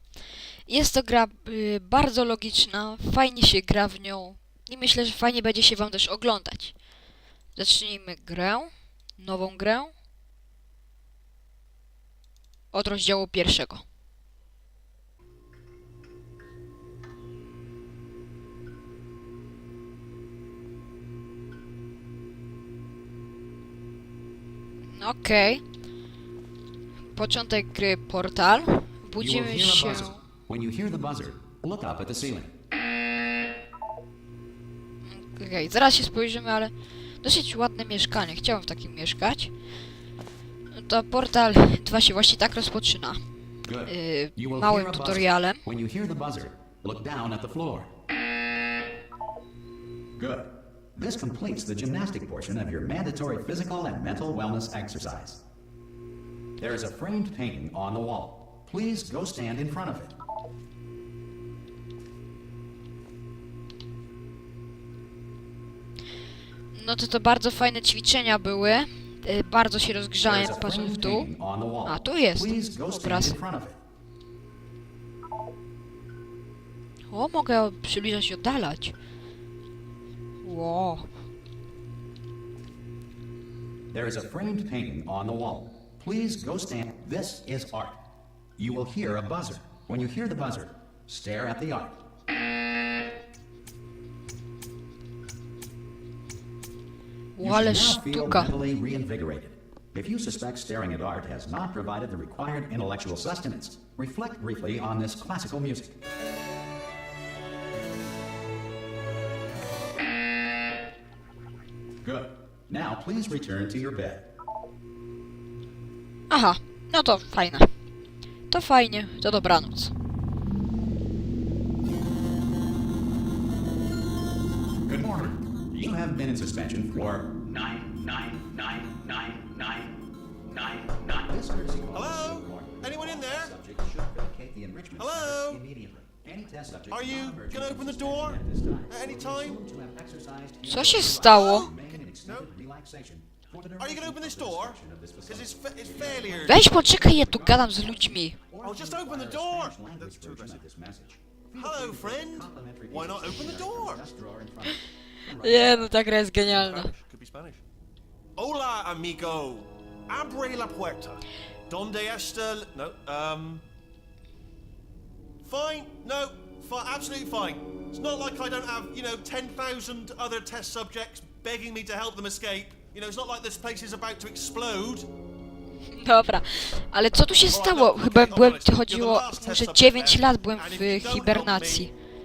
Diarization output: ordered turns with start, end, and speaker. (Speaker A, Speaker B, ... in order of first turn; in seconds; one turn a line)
Speaker A: 0.7-6.8
Speaker A: 7.5-9.9
Speaker A: 12.7-13.8
Speaker A: 24.9-25.6
Speaker A: 27.1-30.2
Speaker B: 29.2-32.5
Speaker A: 35.1-39.5
Speaker A: 40.7-43.2
Speaker B: 43.6-47.9
Speaker A: 43.9-45.6
Speaker B: 50.2-55.4
Speaker B: 56.6-60.1
Speaker A: 66.7-71.3
Speaker B: 70.2-73.8
Speaker A: 71.9-73.4
Speaker A: 77.1-79.0
Speaker A: 80.4-81.1
Speaker B: 83.9-88.0
Speaker B: 88.6-92.0
Speaker A: 97.3-98.6
Speaker B: 97.4-106.0
Speaker B: 112.0-114.3
Speaker A: 116.3-117.7
Speaker A: 118.5-119.9
Speaker B: 124.9-156.0
Speaker C: 131.9-133.5
Speaker C: 135.0-135.6
Speaker C: 136.9-139.6
Speaker A: 140.7-141.7
Speaker C: 141.0-142.5
Speaker C: 143.8-146.7
Speaker A: 146.5-148.4
Speaker C: 148.6-150.6
Speaker C: 151.5-154.0
Speaker A: 155.4-156.9
Speaker C: 156.4-157.6
Speaker C: 158.4-163.6
Speaker C: 165.4-175.1
Speaker A: 175.9-181.9
Speaker C: 177.4-181.9